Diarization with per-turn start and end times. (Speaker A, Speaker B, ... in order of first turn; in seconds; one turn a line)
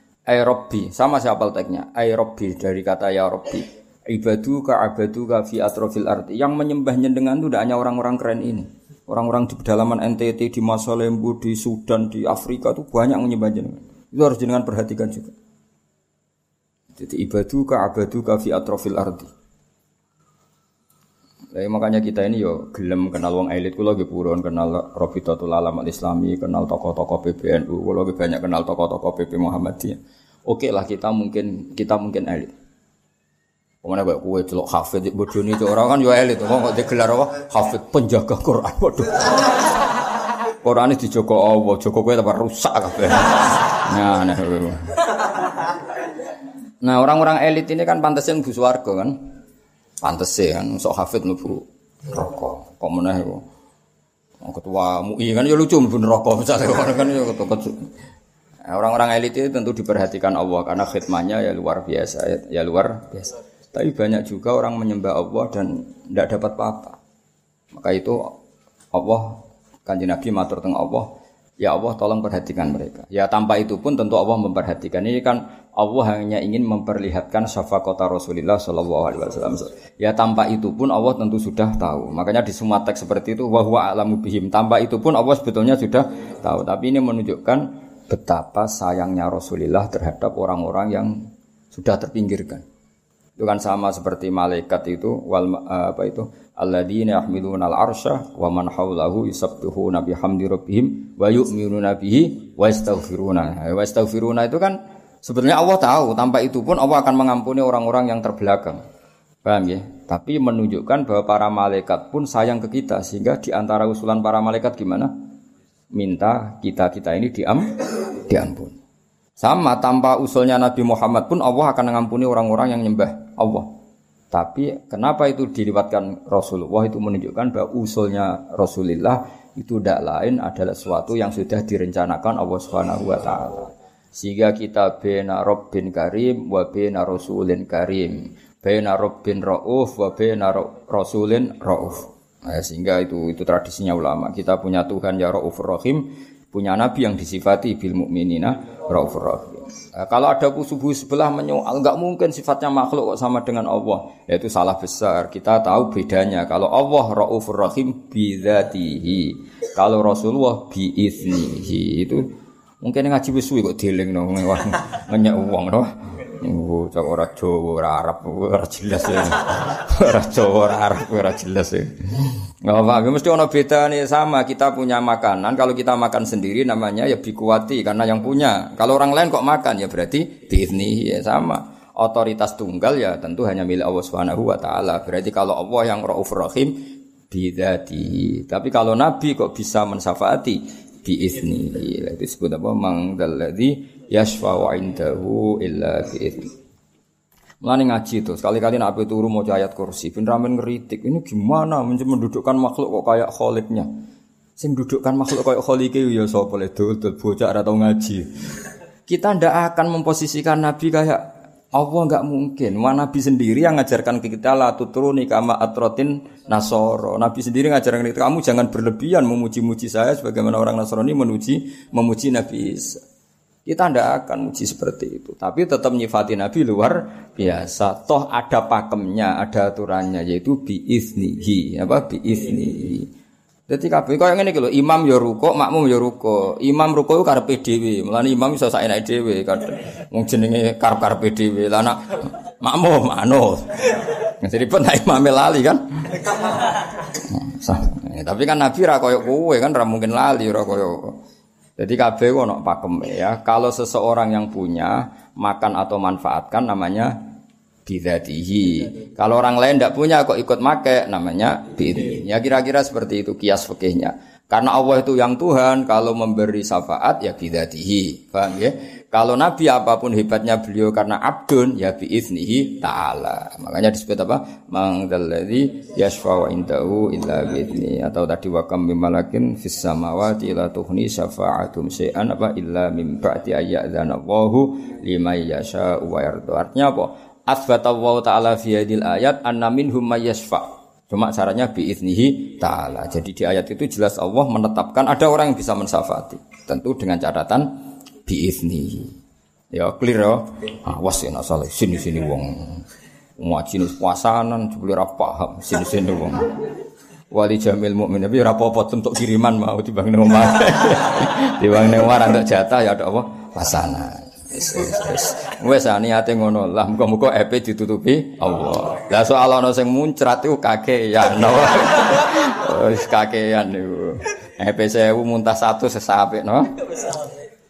Speaker A: 0.3-15.3
Speaker A: 16.9-19.3
Speaker A: 21.5-32.5
Speaker A: 33.8-39.5
Speaker A: 40.6-45.0
Speaker A: 46.8-49.2
Speaker A: 50.0-53.4
Speaker A: 54.4-57.8
Speaker A: 58.7-67.0
Speaker A: 67.7-68.4
Speaker A: 68.9-71.1
Speaker A: 71.6-91.2
Speaker A: 91.7-92.6
Speaker A: 93.4-108.8
Speaker A: 109.4-115.1
Speaker A: 115.9-118.8
Speaker A: 119.4-123.7
Speaker A: 124.3-162.3
Speaker A: 162.8-196.5
Speaker A: 197.6-203.9
Speaker A: 204.6-208.2
Speaker A: 209.1-211.2
Speaker A: 211.7-223.0
Speaker A: 223.7-233.1
Speaker A: 233.7-251.2
Speaker A: 251.8-257.2
Speaker A: 257.9-297.7
Speaker A: 298.2-299.1
Speaker A: 299.7-302.8
Speaker A: 303.4-306.5
Speaker A: 307.3-326.7